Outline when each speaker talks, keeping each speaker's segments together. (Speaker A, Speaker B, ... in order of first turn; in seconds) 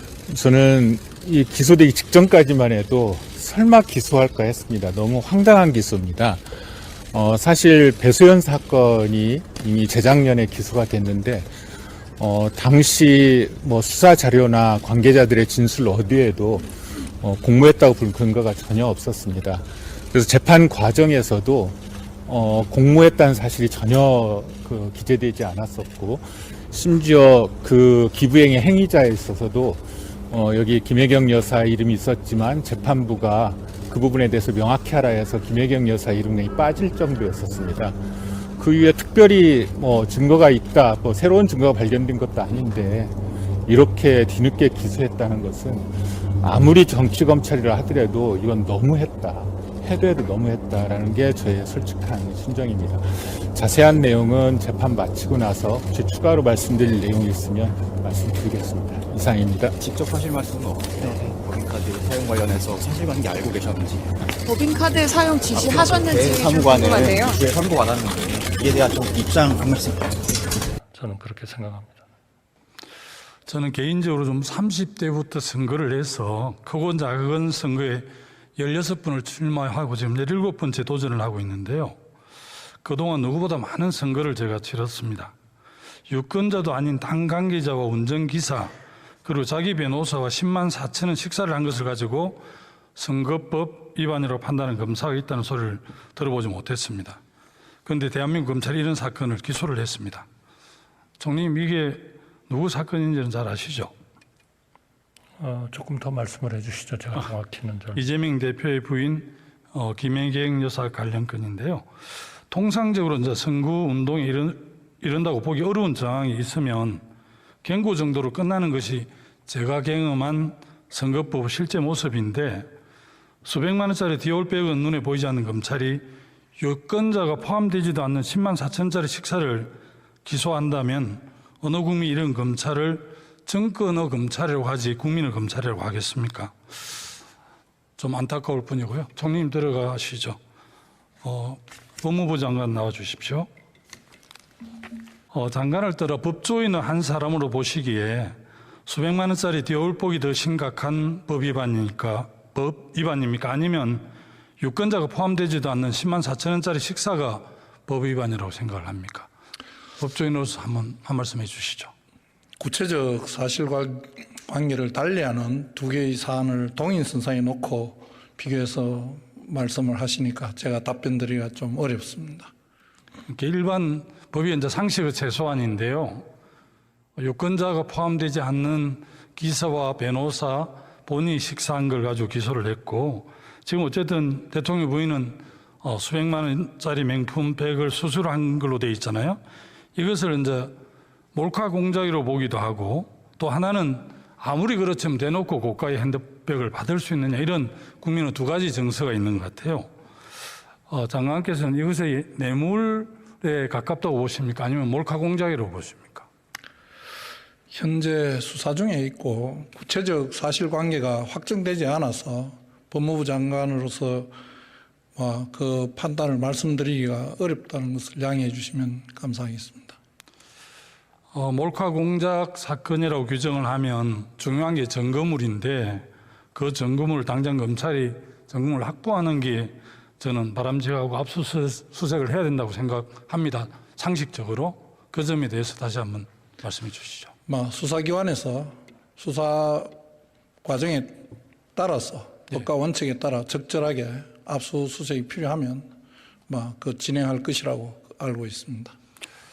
Speaker A: 0.3-6.5, 7.1-11.5, 12.2-59.7
Speaker B: 59.8-64.2, 65.5-70.2
Speaker C: 64.5-67.4
Speaker D: 70.9-72.0, 105.4-108.0
Speaker E: 73.5-82.0, 82.8-85.3, 86.1-88.7, 89.2-92.4, 93.0-97.2, 97.8-100.2, 101.2-103.9, 108.0-111.8, 112.5-117.0, 117.6-122.7, 123.4-126.0, 126.6-136.5, 138.0-140.4, 141.2-143.5, 145.3-154.1, 154.6-159.3, 160.0-161.9, 173.3-176.3, 177.2-189.4, 189.9-190.7, 191.3-199.9, 200.9-206.3, 221.3-237.3
Speaker F: 162.6-172.5, 207.7-214.3, 215.1-219.9, 237.5-239.9, 240.6-245.9, 246.5-248.9